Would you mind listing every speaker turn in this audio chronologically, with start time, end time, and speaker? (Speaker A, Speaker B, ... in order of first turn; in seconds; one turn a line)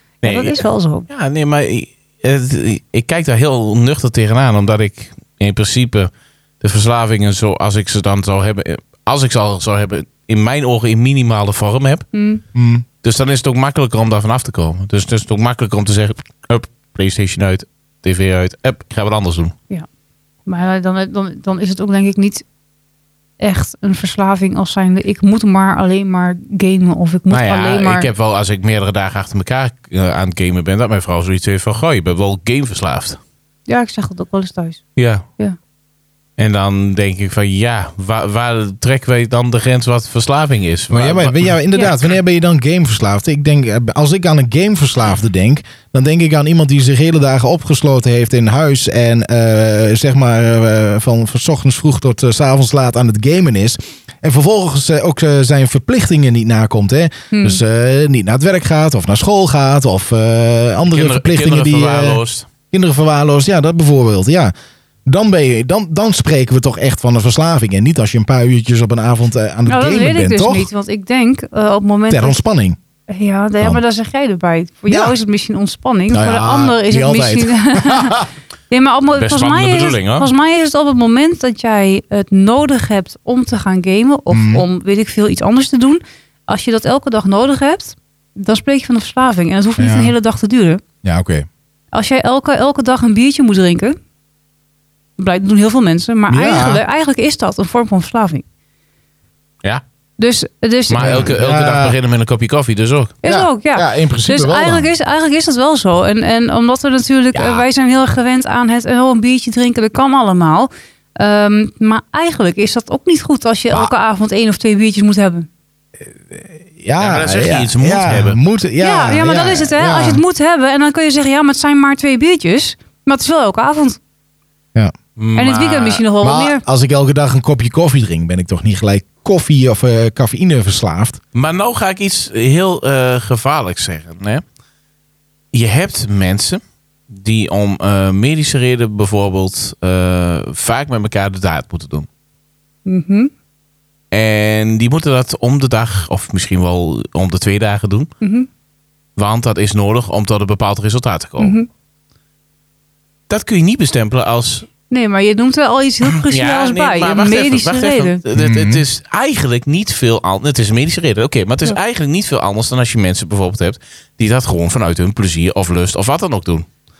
Speaker A: 0.2-1.1
Speaker B: 0.2-12.1
Speaker A: 12.1-12.4
Speaker C: 12.5-12.8
Speaker B: 13.0-19.5
Speaker A: 20.4-22.4
Speaker A: 23.4-28.1
Speaker B: 27.3-33.2
Speaker A: 33.7-34.8
Speaker B: 35.0-35.2
Speaker B: 36.4-41.5
Speaker C: 40.9-62.2
Speaker A: 57.3-57.6
Speaker B: 60.9-62.5
Speaker C: 62.7-64.5
Speaker C: 65.0-70.7
Speaker A: 69.7-72.4
Speaker C: 72.1-72.8
Speaker A: 73.1-90.8
Speaker C: 76.1-78.2
Speaker B: 79.2-80.3
Speaker C: 84.3-84.6
Speaker C: 89.8-90.1
Speaker C: 91.0-91.5
Speaker A: 91.9-94.0
Speaker A: 95.2-98.4
Speaker C: 96.3-96.8
Speaker A: 100.2-101.2
Speaker B: 100.9-103.2
Speaker C: 101.0-101.9
Speaker A: 103.2-115.5
Speaker C: 103.2-104.9
Speaker C: 116.2-120.2
Speaker B: 117.0-118.4
Speaker A: 118.8-124.0
Speaker B: 125.2-126.0
Speaker A: 125.3-126.6
Speaker C: 126.2-131.2
Speaker B: 131.3-134.4
Speaker B: 135.5-142.1
Speaker A: 142.8-143.3
Speaker B: 144.1-148.1
Speaker A: 148.2-148.5
Speaker B: 149.2-151.6
Speaker A: 151.4-151.7
Speaker B: 153.3-154.7
Speaker A: 154.9-158.2
Speaker B: 156.1-166.7
Speaker C: 158.3-158.8